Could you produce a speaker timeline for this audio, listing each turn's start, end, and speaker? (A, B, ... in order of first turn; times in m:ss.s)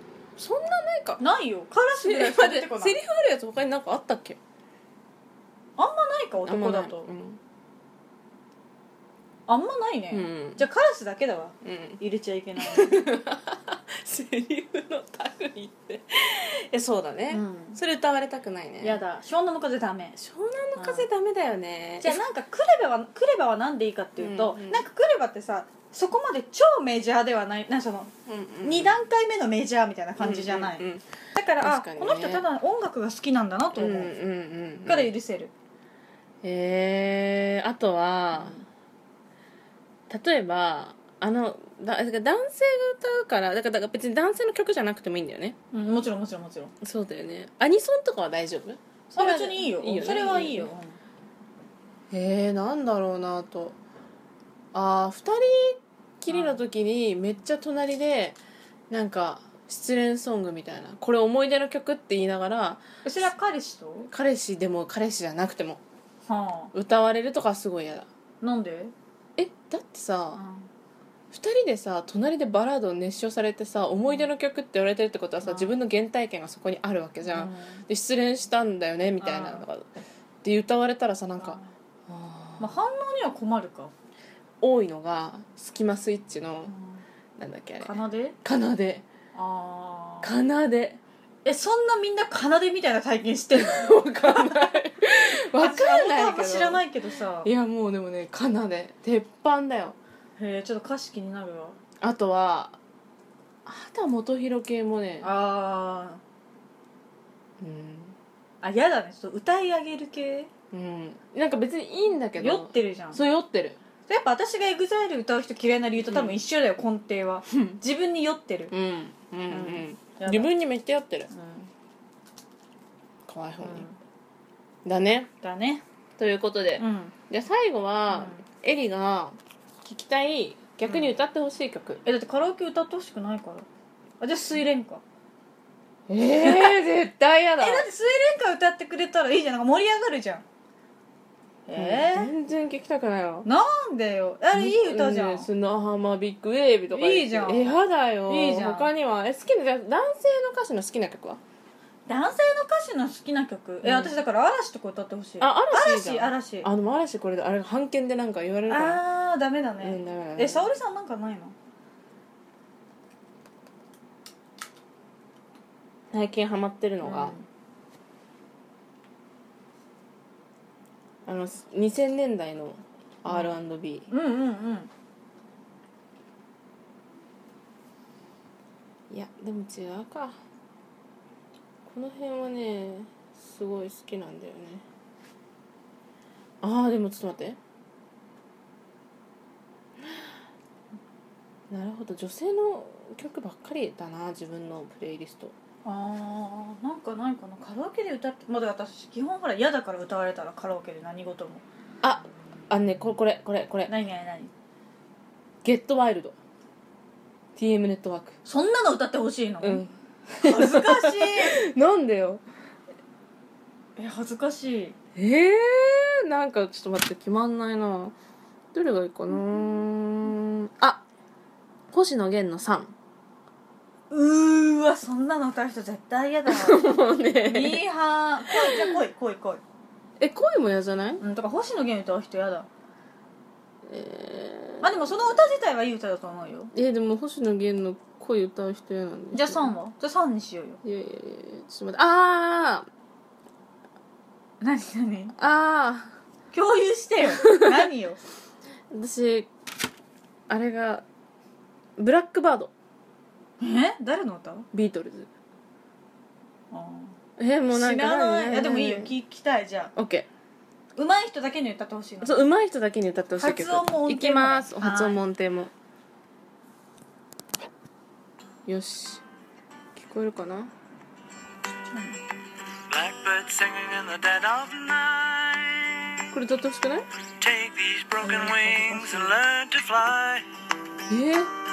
0:00.4-0:01.2 A
0:01.2-0:03.0 B
0:02.0-0:04.4 A
0:05.8-0:07.1 B
0:06.4-0:07.4 A
0:09.5-0:13.0 B
0:10.1-0:10.6 A
0:11.6-0:12.0 A
0:12.6-0:19.0 A
0:17.3-0:17.8 B
0:18.8-0:20.2 B
0:20.2-0:22.2 A
0:20.8-0:21.1 B
0:22.0-0:28.1 B
0:24.2-0:24.8 A
0:28.2-0:29.0 A
0:28.6-0:34.1 B
0:30.2-0:31.0 A
0:31.6-0:32.4 A
0:33.7-0:35.1 A
0:34.8-0:35.5 B
0:36.4-0:38.6 A
0:38.3-0:38.6 B
0:40.1-0:45.6 A
0:45.7-0:46.7 B
0:46.8-0:50.7 A
0:49.1-0:51.0 B
0:52.1-0:53.8 A
0:54.7-0:58.4 A
0:56.3-0:56.6 B
0:58.9-1:03.3 A
1:03.0-1:04.1 B
1:04.1-1:05.8 A
1:06.3-1:06.7 B
1:06.7-1:08.1 A
1:08.4-1:08.9 B
1:09.4-1:10.4 A
1:10.3-1:10.7 B
1:11.3-1:19.9 A
1:15.4-1:15.7 B
1:17.2-1:17.8 B
1:19.2-1:19.6 B
1:20.4-1:21.6 A
1:21.4-1:21.7 B
1:22.1-1:22.8 A
1:22.6-1:23.9 B
1:24.6-1:26.7 A
1:26.6-1:27.0 B
1:27.4-1:27.9 A
1:27.8-1:28.4 B
1:28.4-1:29.0 A
1:29.3-1:30.3 B
1:30.2-1:31.0 A
1:31.4-1:34.7 B
1:33.5-1:36.8 A
1:35.6-1:37.5 B
1:37.4-1:40.0 A
1:40.4-1:41.8 B
1:42.0-1:42.8 A
1:43.6-1:45.3 A
1:45.2-1:46.2 B
1:47.6-1:48.1 A
1:48.6-1:50.5 B
1:50.7-1:53.8 A
1:52.4-1:53.2 B
1:54.1-1:58.7 B
1:56.0-1:56.4 A
1:58.7-2:01.3 A
1:59.5-2:00.5 B
2:01.3-2:01.7 B
2:03.2-2:03.9 A
2:03.6-2:04.0 B
2:04.8-2:05.3 A
2:05.4-2:05.8 B
2:06.2-2:12.0 A
2:06.8-2:07.1 B
2:08.1-2:08.4 B
2:12.0-2:13.7 B
2:14.2-2:15.0 B
2:16.1-2:17.9 A
2:16.3-2:16.8 B
2:17.6-2:20.4 B
2:21.7-2:22.3 B
2:21.8-2:23.5 A
2:23.4-2:25.5 B
2:24.5-2:31.4 A
2:26.9-2:28.9 B
2:32.1-2:36.7 B
2:33.8-2:34.2 A
2:35.4-2:39.0 A
2:38.7-2:41.5 B
2:39.8-2:40.6 A
2:46.1-2:47.4 A
2:47.0-2:47.4 B
2:51.2-2:54.1 A
2:53.3-2:53.6 B
2:54.1-2:54.9 B
2:59.1-3:00.4 A
3:01.8-3:04.8 A
3:06.6-3:07.6 A
3:11.7-3:15.5 A
3:15.8-3:21.6 B
3:22.0-3:23.9 A
3:23.9-3:24.5 B
3:25.6-3:26.4 A
3:27.6-3:28.4 A
3:28.4-3:29.8 B
3:29.6-3:32.4 A
3:30.4-3:31.6 B
3:34.0-3:35.0 B
3:35.2-3:38.1 A
3:38.7-3:41.0 A
3:39.3-3:39.8 B
3:41.9-3:42.9 A
3:44.1-3:49.6 B
3:46.5-3:47.8 A
3:48.6-3:49.0 A
3:50.2-3:51.2 A
3:51.2-3:52.7 B
3:53.9-3:54.9 A
3:54.8-3:56.7 B
3:56.7-3:59.7 A
3:59.3-4:00.8 B
4:00.8-4:02.8 A
4:04.6-4:05.3 B
4:05.4-4:06.1 A
4:06.5-4:08.2 B
4:07.4-4:07.8 A
4:08.9-4:09.5 A
4:10.5-4:11.0 A
4:12.0-4:12.7 A
4:13.6-4:14.7 B
4:14.7-4:15.3 A
4:16.7-4:17.2 B
4:17.4-4:19.1 A
4:17.7-4:19.9 B
4:20.0-4:20.3 A
4:21.0-4:22.4 B
4:22.2-4:25.7 A
4:23.4-4:25.2 B
4:28.6-4:29.2 A
4:30.0-4:30.7 A
4:31.9-4:32.2 B
4:32.9-4:36.0 C
4:36.3-4:37.0 A
4:37.4-4:40.4 C
4:38.2-4:39.4 B
4:41.1-4:41.5 A